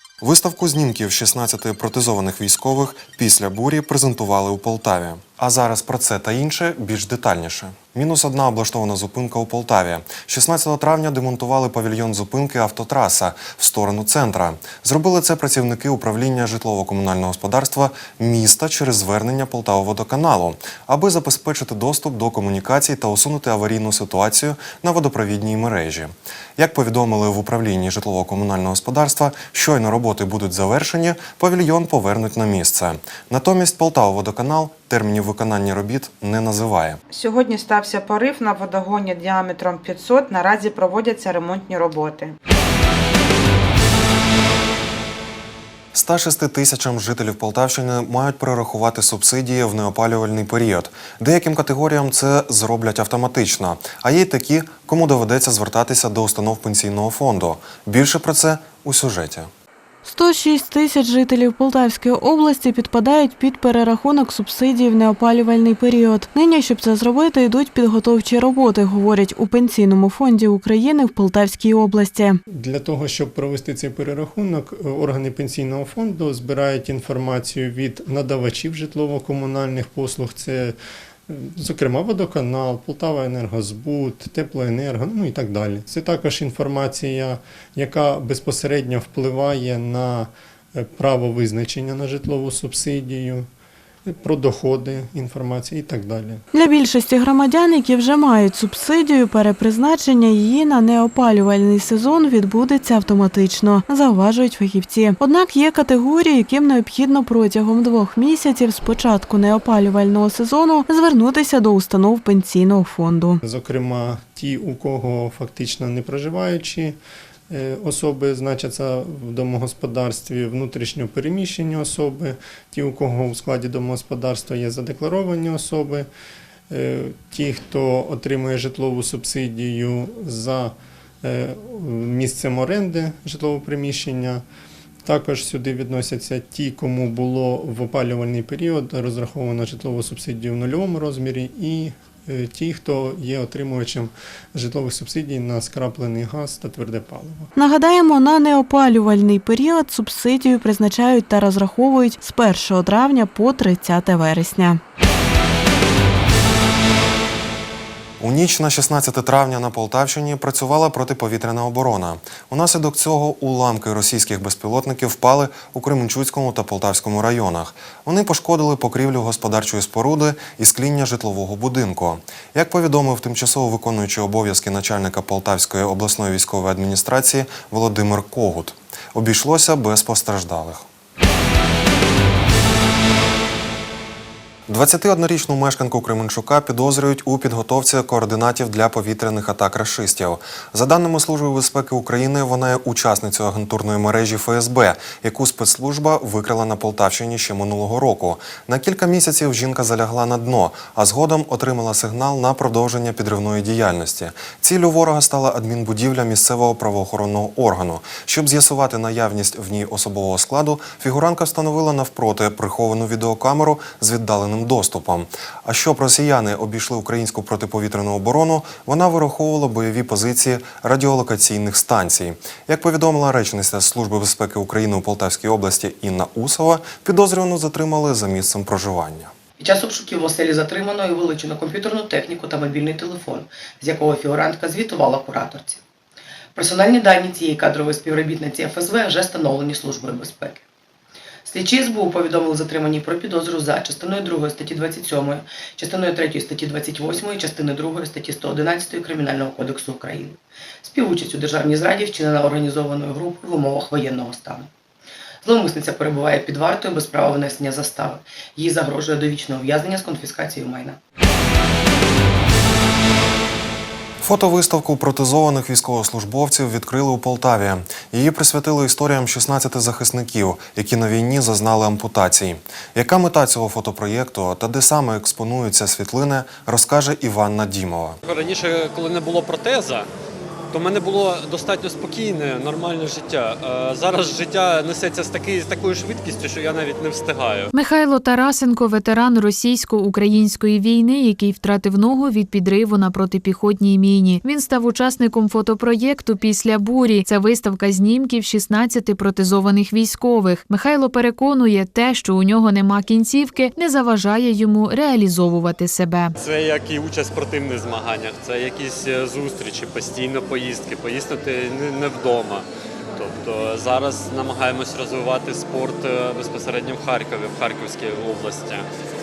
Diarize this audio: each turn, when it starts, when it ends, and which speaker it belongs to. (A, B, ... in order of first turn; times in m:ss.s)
0:00.2-0:37.0 A
0:37.1-0:42.3 B
0:45.9-0:59.5 A
1:00.1-1:12.4 C
1:12.5-1:20.8 D
1:21.3-1:33.5 D
1:34.1-1:36.4 D
1:36.5-1:53.4 C
1:53.4-1:57.0 D
1:57.5-2:06.1 D
2:06.7-2:14.4 D
2:15.0-2:27.5 D
2:27.6-2:34.8 C
2:38.2-3:00.9 A
3:04.7-3:49.3 A
3:49.6-3:55.8 E
3:56.6-4:00.6 E
4:01.5-4:14.7 E
4:15.4-4:21.0 E
4:24.2-4:38.2 A
4:38.2-4:40.1 F
4:40.7-4:47.7 F
4:47.7-5:06.3 G
5:06.4-5:18.9 F